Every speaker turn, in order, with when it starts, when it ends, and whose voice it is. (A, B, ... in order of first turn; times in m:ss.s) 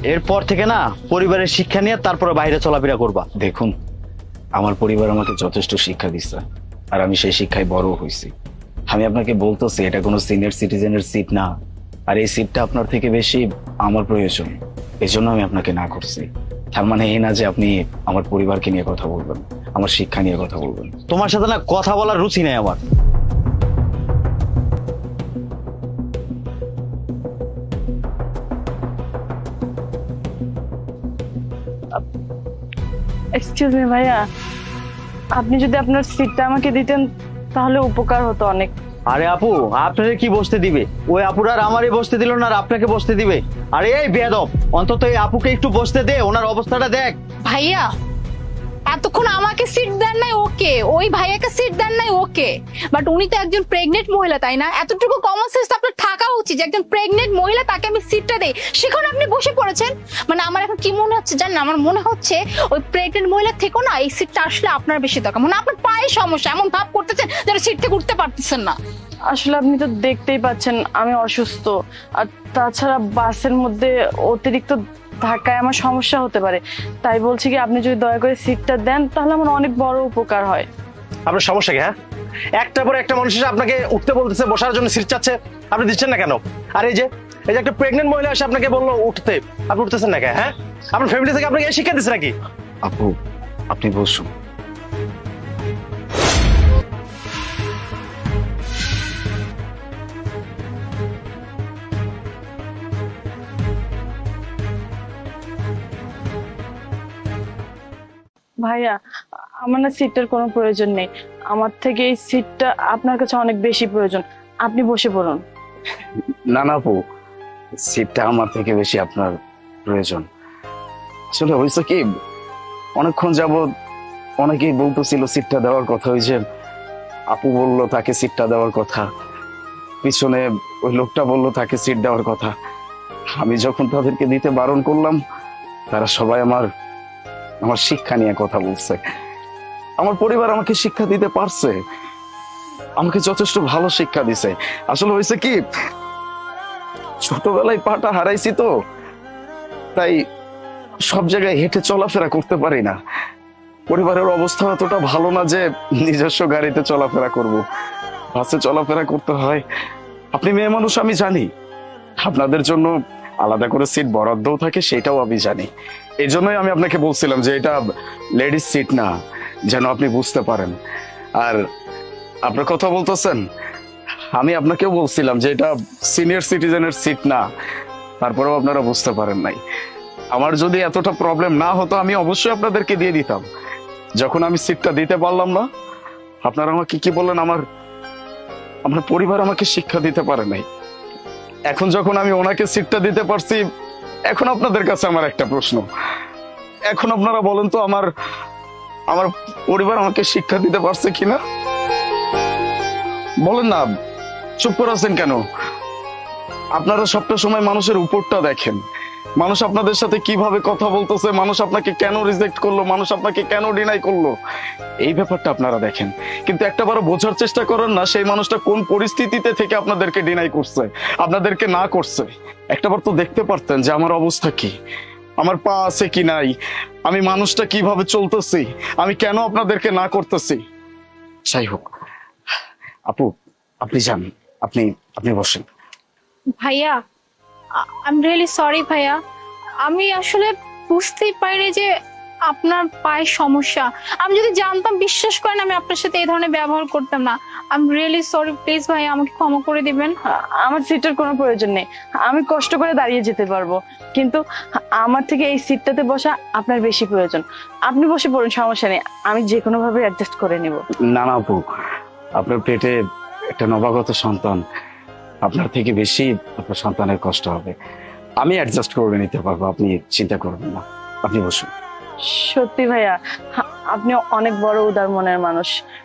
0:00.1-0:03.2 A
0:03.4-0:03.7 B
0:04.6-0:08.3 B
0:08.9-0:11.5 B
0:12.1-0:20.9 B
0:21.1-0:22.8 A
0:33.4-0:34.2 C
0:35.4-0:38.7 C
0:39.1-0:47.2 A
0:47.4-0:47.9 D
0:48.9-1:08.8 D
1:09.3-1:20.7 C
1:21.3-1:21.9 E
1:22.6-1:32.3 E
1:32.8-1:33.1 B
1:33.7-1:34.3 B
1:48.6-1:48.9 C
1:49.6-1:55.4 C
1:56.5-1:57.0 B
1:57.8-2:00.2 B
2:01.3-2:02.0 B
2:03.0-2:03.7 B
2:04.4-2:06.4 B
2:07.3-2:09.0 B
2:10.0-2:12.5 B
2:13.4-2:15.2 B
2:15.9-2:16.7 B
2:17.6-2:19.0 B
2:20.0-2:21.7 B
2:23.0-2:25.6 B
2:27.2-2:28.7 B
2:31.0-2:33.0 B
2:33.9-2:37.6 B
2:38.3-2:39.6 B
2:40.3-2:41.5 B
2:42.2-2:45.7 B
2:46.2-2:47.8 B
2:48.4-2:49.1 B
2:49.7-2:50.8 B
2:52.4-2:53.4 B
2:54.3-2:57.4 B
2:58.2-2:59.6 B
3:00.3-3:03.4 B
3:04.2-3:05.7 B
3:06.4-3:07.6 B
3:08.8-3:10.6 B
3:11.7-3:13.6 B
3:14.3-3:15.8 B
3:16.9-3:18.1 B
3:19.1-3:21.4 B
3:23.4-3:23.9 B
3:24.6-3:25.4 B
3:26.8-3:28.8 B
3:29.4-3:34.4 B
3:35.0-3:44.7 B
3:45.4-3:46.5 B
3:47.0-3:50.6 B
3:51.4-3:51.9 B
3:53.8-3:55.6 B
3:56.6-3:57.0 D
3:57.7-3:59.2 D
3:59.8-4:01.9 D
4:02.5-4:10.2 D
4:10.6-4:14.4 C
4:15.0-4:20.8 C
4:21.0-4:21.6 B
4:22.4-4:23.0 B
4:23.5-4:24.6 B
4:25.4-4:27.8 B
4:28.4-4:31.7 B
4:32.2-4:35.7 C